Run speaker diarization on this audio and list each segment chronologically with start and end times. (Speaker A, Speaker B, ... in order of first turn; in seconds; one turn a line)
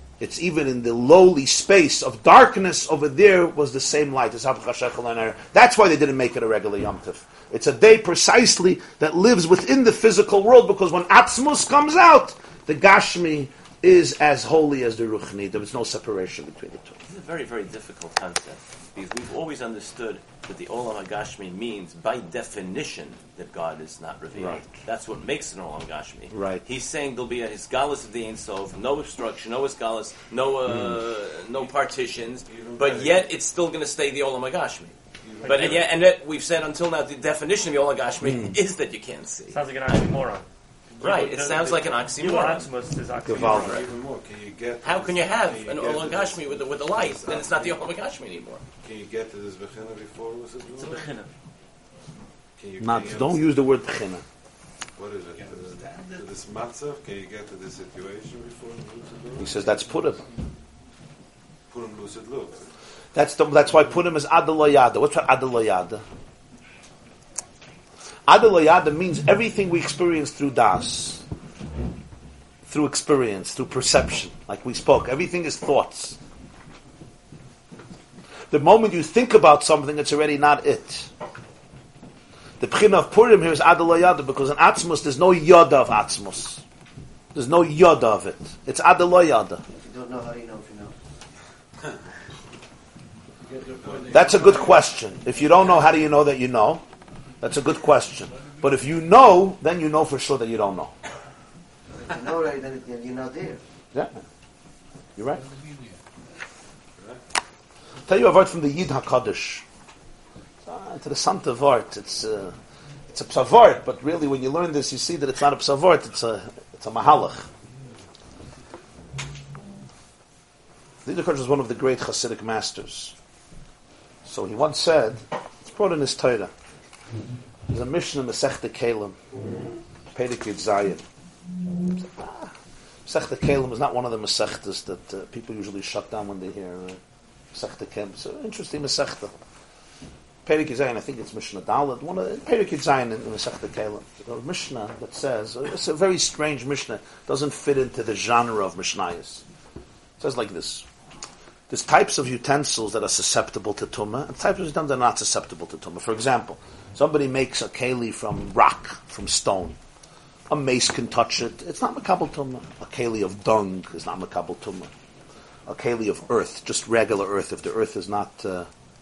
Speaker A: 0.2-17.0
Speaker B: 17.1-40.0
Speaker A: 24.3-24.7
Speaker A: 26.3-26.6
Speaker C: 32.5-33.2
Speaker C: 35.2-35.9
Speaker D: 35.4-35.7
Speaker A: 38.2-38.5
Speaker D: 39.5-40.4
Speaker D: 41.0-43.8
Speaker B: 41.0-42.7
Speaker A: 43.2-43.8
Speaker C: 43.3-47.8
Speaker B: 43.5-43.8
Speaker B: 44.8-48.6
Speaker C: 48.8-51.0
Speaker D: 50.7-51.3
Speaker C: 52.6-53.5
Speaker A: 52.8-54.2
Speaker C: 55.0-59.8
Speaker A: 59.4-60.2
Speaker C: 61.7-62.7
Speaker A: 63.1-66.0
Speaker A: 68.3-71.2
Speaker A: 72.7-76.2
Speaker A: 78.5-81.1
Speaker A: 82.6-86.6
Speaker A: 87.3-89.6
Speaker E: 89.7-90.9
Speaker C: 94.0-94.3
Speaker A: 94.1-96.8
Speaker A: 97.4-100.9
Speaker E: 102.0-103.6
Speaker A: 105.2-105.4
Speaker A: 108.1-109.6
Speaker A: 110.7-112.5
Speaker A: 113.1-117.5
Speaker A: 121.0-123.1
Speaker A: 124.2-126.5
Speaker A: 127.7-129.2
Speaker A: 130.1-131.0
Speaker A: 132.0-132.5
Speaker A: 133.1-137.0
Speaker A: 137.5-139.3
Speaker A: 140.4-149.4
Speaker A: 150.2-150.8
Speaker A: 151.7-159.8
Speaker A: 160.5-164.9
Speaker A: 165.7-168.7